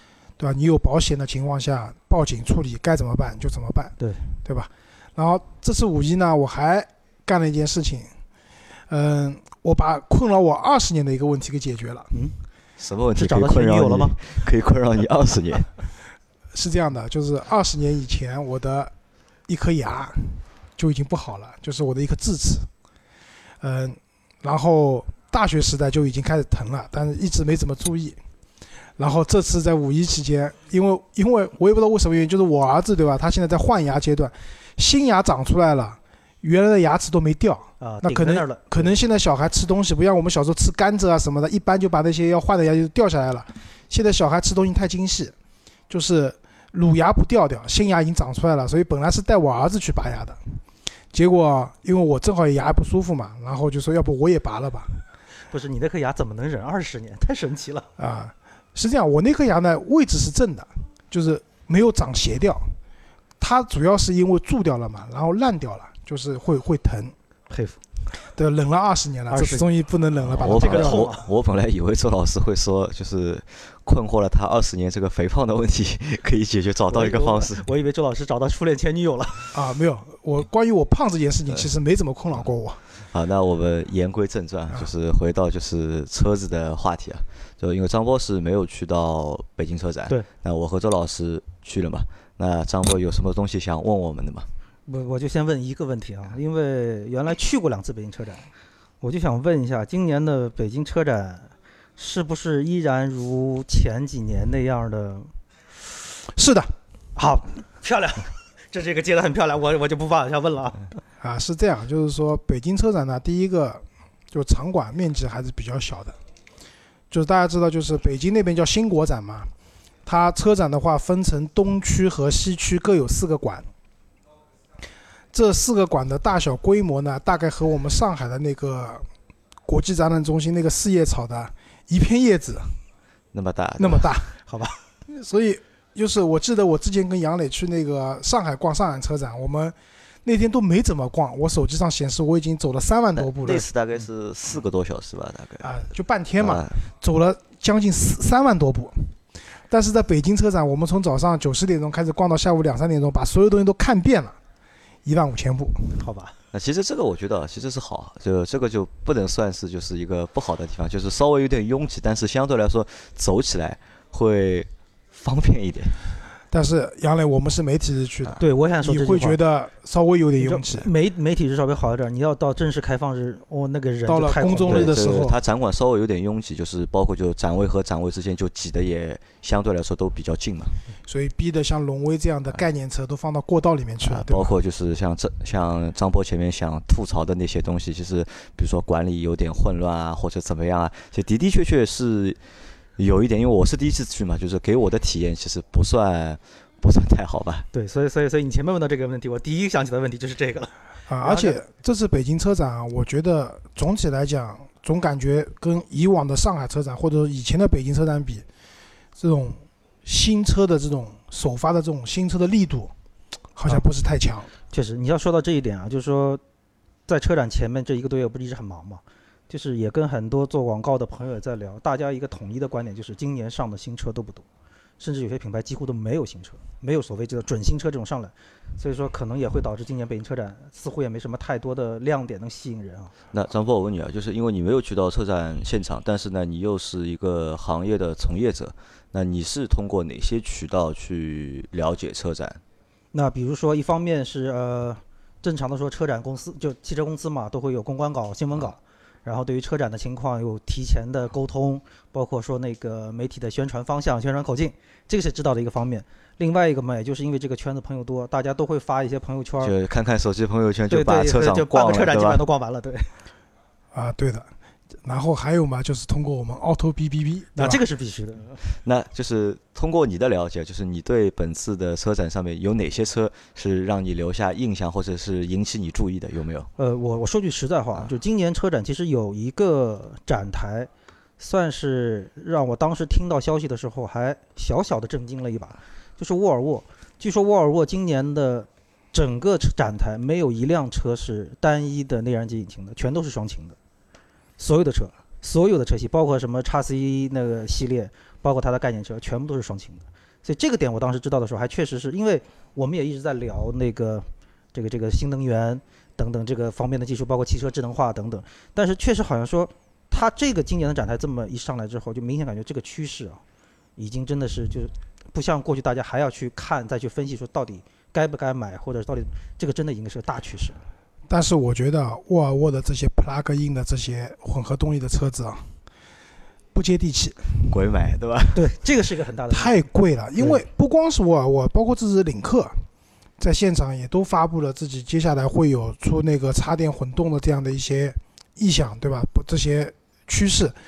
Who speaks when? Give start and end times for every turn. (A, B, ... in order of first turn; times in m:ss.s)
0:00.4-0:08.1 A
0:08.9-0:12.1 A
0:12.8-0:15.7 B
0:13.2-0:14.2 C
0:16.5-0:18.9 A
0:19.5-0:22.7 A
0:23.6-0:28.2 A
0:29.0-0:45.3 A
0:37.8-0:38.9 C
0:45.9-0:50.4 A
0:51.1-0:55.0 A
0:55.5-0:57.9 C
0:58.0-1:02.8 A
1:03.4-1:07.2 A
1:07.5-1:07.8 C
1:08.2-1:11.2 A
1:09.3-1:09.7 C
1:10.3-1:17.7 B
1:10.4-1:11.2 C
1:16.9-1:19.5 C
1:19.5-1:22.8 A
1:23.1-1:34.5 B
1:34.9-1:38.5 C
1:39.0-1:45.3 C
1:46.3-1:46.7 A
1:47.2-1:51.0 C
1:51.2-1:56.2 A
1:57.1-1:59.5 A
2:00.0-2:03.7 A
2:05.3-2:09.1 A
2:09.7-2:12.8 A
2:13.3-2:14.1 B
2:13.8-2:14.4 A
2:14.5-2:14.8 C
2:15.1-2:23.7 A
2:23.2-2:25.8 B
2:25.6-2:29.2 A
2:26.4-2:26.8 B
2:29.7-2:34.4 A
2:35.0-2:36.0 A
2:36.0-2:36.4 C
2:36.5-2:46.0 B
2:46.5-2:50.9 A
2:48.4-2:49.4 C
2:50.4-2:55.1 C
2:54.1-2:55.4 A
2:54.7-3:00.8 B
3:01.1-3:04.5 A
3:04.0-3:12.4 B
3:13.0-3:17.7 B
3:17.7-3:21.6 C
3:21.1-3:28.4 A
3:29.2-3:32.9 A
3:33.6-3:34.5 A
3:34.7-3:36.4 C
3:37.1-3:44.4 C
3:45.0-3:53.1 C
3:53.3-4:02.6 B
4:03.1-4:19.7 C
4:19.6-4:22.4 B
4:20.9-4:23.1 C
4:23.9-4:24.5 A
4:25.0-4:27.8 A
4:27.6-4:28.6 C
4:28.7-4:36.7 B
4:36.8-4:53.8 C
4:54.6-5:13.4 C
5:14.0-5:20.8 C
5:21.3-5:25.7 A
5:26.7-5:27.7 A
5:27.7-5:28.7 B
5:28.6-5:29.8 C
5:29.5-5:32.8 A
5:33.4-5:40.8 A